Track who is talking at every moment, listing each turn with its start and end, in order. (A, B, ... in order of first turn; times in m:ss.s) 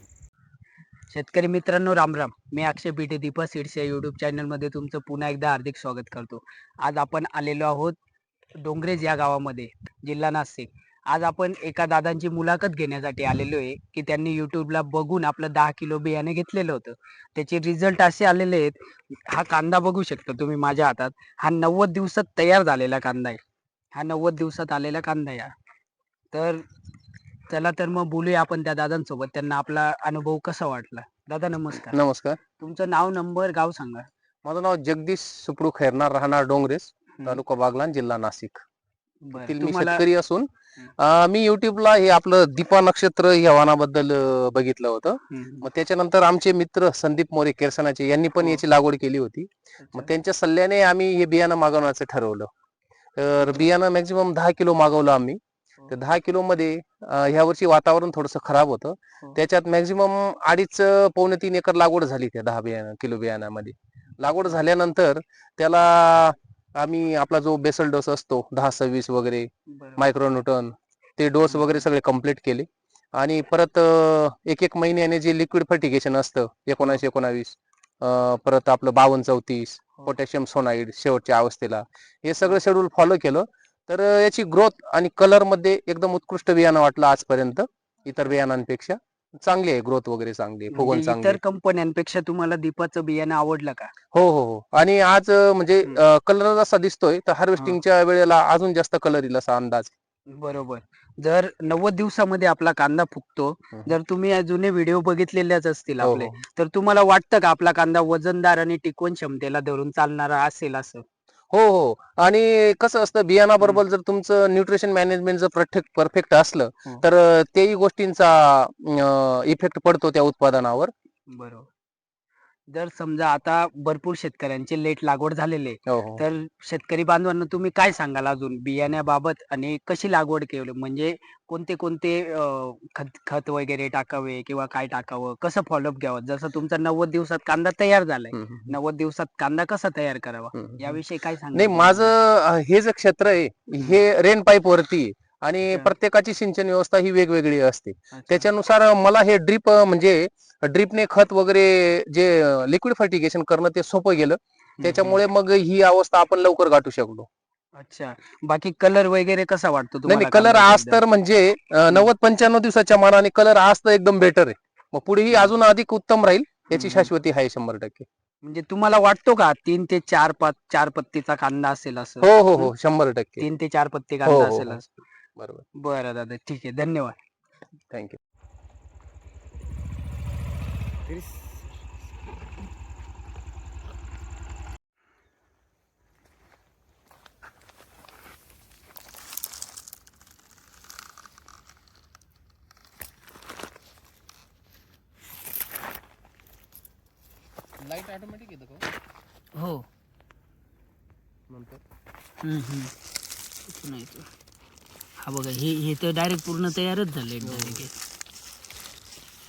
0:01.1-0:08.0 A
0:08.6-0:23.4 A
0:24.0-0:25.5 A
0:26.3-0:26.6 A
0:27.5-0:32.0 A
0:31.7-0:32.4 B
0:32.6-0:34.1 A
0:34.4-0:38.6 B
0:39.3-0:40.0 A
0:39.4-0:40.5 B
0:41.0-0:52.5 B
0:45.3-0:45.7 A
0:49.8-0:50.1 A
0:53.2-0:55.4 B
0:55.9-1:12.7 B
1:09.7-1:10.1 A
1:11.5-1:11.9 A
1:13.2-1:31.4 B
1:16.8-1:17.0 A
1:30.7-1:33.9 A
1:34.1-1:39.9 B
1:40.4-1:51.0 A
1:46.0-1:46.4 B
1:51.5-2:00.9 B
2:01.3-2:01.7 A
2:02.7-2:22.1 A
2:05.9-2:06.2 B
2:18.3-2:18.7 B
2:20.5-2:21.0 B
2:21.5-2:37.3 B
2:28.1-2:28.5 A
2:34.8-2:35.2 A
2:37.8-2:41.0 A
2:40.1-2:48.1 B
2:46.7-2:47.1 A
2:48.4-2:52.7 A
2:52.2-2:53.5 B
2:53.4-2:54.9 A
2:54.2-2:54.8 B
2:55.4-2:55.6 B
2:55.8-2:57.2 A
2:57.9-2:58.2 B
3:17.8-3:18.8 B
3:19.6-3:19.8 A
3:21.5-3:21.8 B
3:22.4-3:22.9 A
3:23.7-3:24.3 A
3:25.2-3:27.9 A
3:27.4-3:27.8 B